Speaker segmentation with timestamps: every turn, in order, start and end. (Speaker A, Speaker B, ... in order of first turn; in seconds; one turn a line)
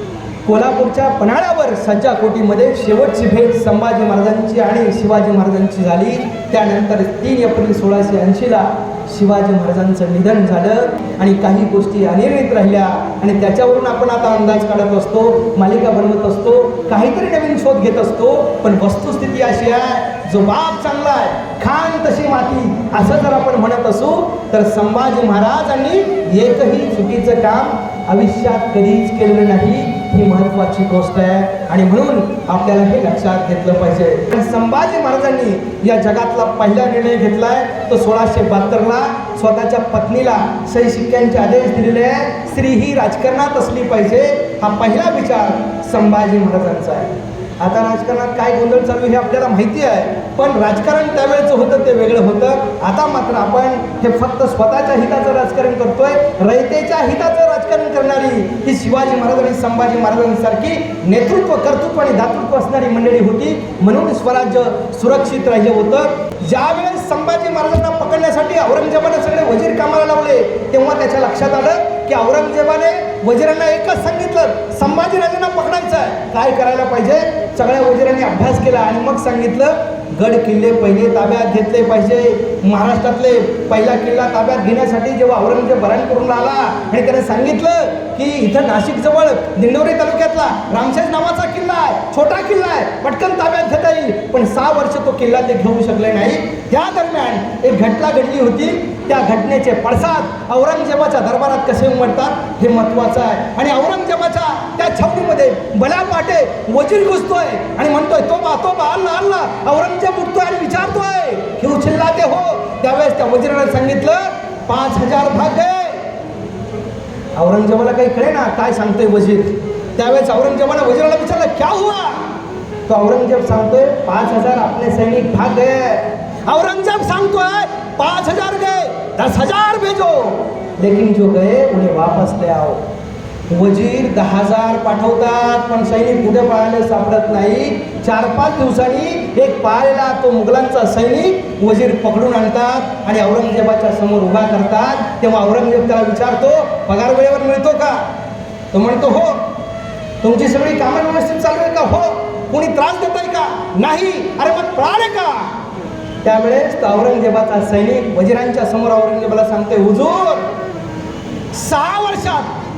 Speaker A: 0.5-116.1
Speaker A: 117.4-122.3
Speaker A: 122.9-132.8
Speaker A: 133.5-148.1
Speaker A: 148.7-149.5
Speaker A: 150.2-155.6
Speaker A: 156.2-160.5
Speaker A: 161.5-162.5